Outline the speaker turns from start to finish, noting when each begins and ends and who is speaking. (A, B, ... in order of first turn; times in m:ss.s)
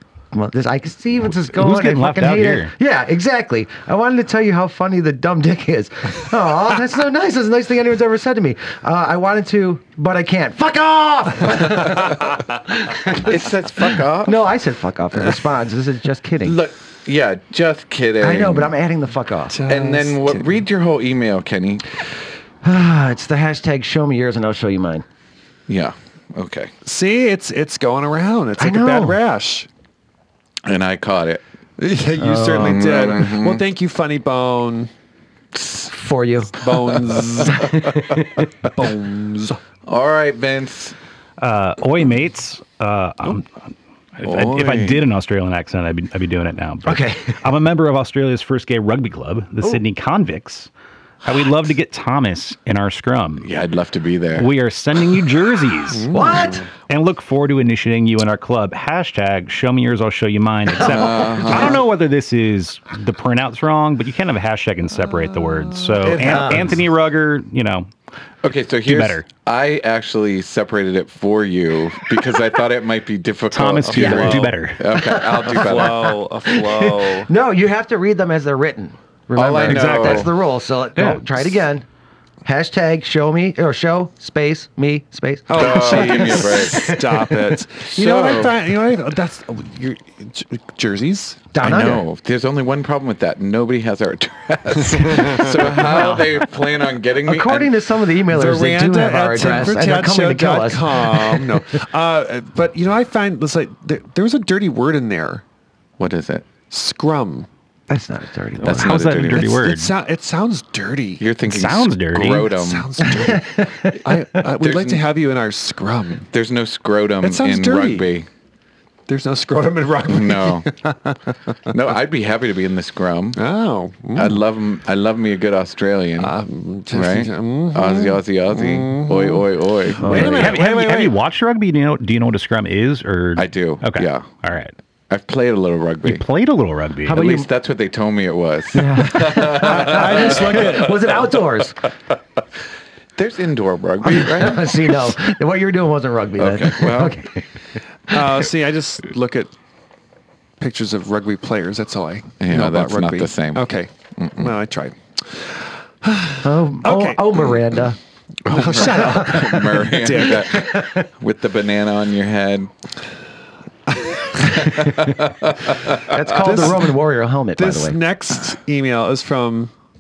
0:00.3-0:13.5 A
0:01.4-0:02.7 B
0:13.1-0:14.4 C
0:14.2-0:16.6 A
0:16.4-0:18.7 C
0:18.2-0:19.6 A
0:19.5-0:20.6 D
0:19.7-0:21.9 C
0:22.6-0:25.0 A
0:25.7-0:26.7 C
0:26.8-0:29.7 D
0:28.6-0:29.2 A
0:30.6-0:31.4 C
0:31.8-0:34.9 D
0:32.2-0:33.2 A
0:32.6-0:33.6 C
0:35.5-0:35.9 C
0:35.9-0:36.6 A
0:36.6-0:37.7 D
0:36.6-0:37.9 C
0:37.5-0:38.5 A
0:38.6-0:39.6 D
0:39.9-0:41.0 C
0:41.4-0:43.6 B
0:44.2-0:50.7 B
0:44.2-0:45.1 C
0:46.8-0:47.4 A
0:51.2-0:53.5 B
0:53.4-0:54.5 C
0:54.4-0:56.1 B
0:55.9-0:56.6 D
0:56.1-0:56.7 A
0:56.9-1:07.9 B
1:00.8-1:01.7 A
1:00.8-1:01.8 C
1:05.2-1:06.3 D
1:06.0-1:06.6 C
1:06.2-1:06.7 A
1:08.4-1:16.1 C
1:08.8-1:09.3 B
1:13.5-1:15.0 B
1:13.9-1:14.5 D
1:14.9-1:21.8 A
1:15.5-1:17.3 D
1:19.4-1:20.3 C
1:19.6-1:20.3 D
1:22.4-1:27.4 A
1:25.5-1:31.5 D
1:25.5-1:26.9 C
1:27.9-1:28.6 C
1:31.5-1:32.0 A
1:31.6-1:37.7 C
1:34.9-1:35.8 D
1:35.8-1:36.2 A
1:37.2-1:41.6 A
1:38.3-1:45.4 D
1:46.0-1:46.5 C
1:46.7-1:47.5 D
1:47.9-1:49.0 A
1:48.6-1:49.6 C
1:48.6-1:49.9 B
1:49.3-1:51.3 D
1:51.2-1:52.9 C
1:51.4-1:52.6 B
1:52.5-1:56.3 D
1:53.1-1:54.0 A
1:54.6-1:55.0 C
1:56.3-1:58.3 C
1:57.2-1:58.1 D
1:59.1-2:01.3 D
2:00.0-2:00.7 C
2:01.7-2:03.4 C
2:03.4-2:04.4 D
2:04.2-2:06.3 C
2:06.2-2:11.2 D
2:06.9-2:10.5 C
2:10.0-2:10.5 A
2:10.1-2:14.7 B
2:13.4-2:14.3 C
2:15.1-2:16.2 C
2:16.0-2:17.3 B
2:17.1-2:17.5 A
2:17.1-2:20.8 C
2:18.7-2:21.8 A
2:19.4-2:21.2 D
2:23.2-2:24.9 C
2:24.0-2:27.5 A
2:26.4-2:27.2 C
2:28.1-2:29.5 D
2:30.6-2:37.5 D
2:32.4-2:34.5 C
2:36.4-2:38.0 A
2:38.5-2:42.7 C
2:38.5-2:40.6 D
2:38.9-2:39.5 A
2:40.5-2:41.0 A
2:43.9-2:44.6 D
2:44.6-2:46.4 C
2:44.7-2:45.2 A
2:46.0-2:48.0 A
2:46.4-2:47.0 D
2:47.6-2:49.7 D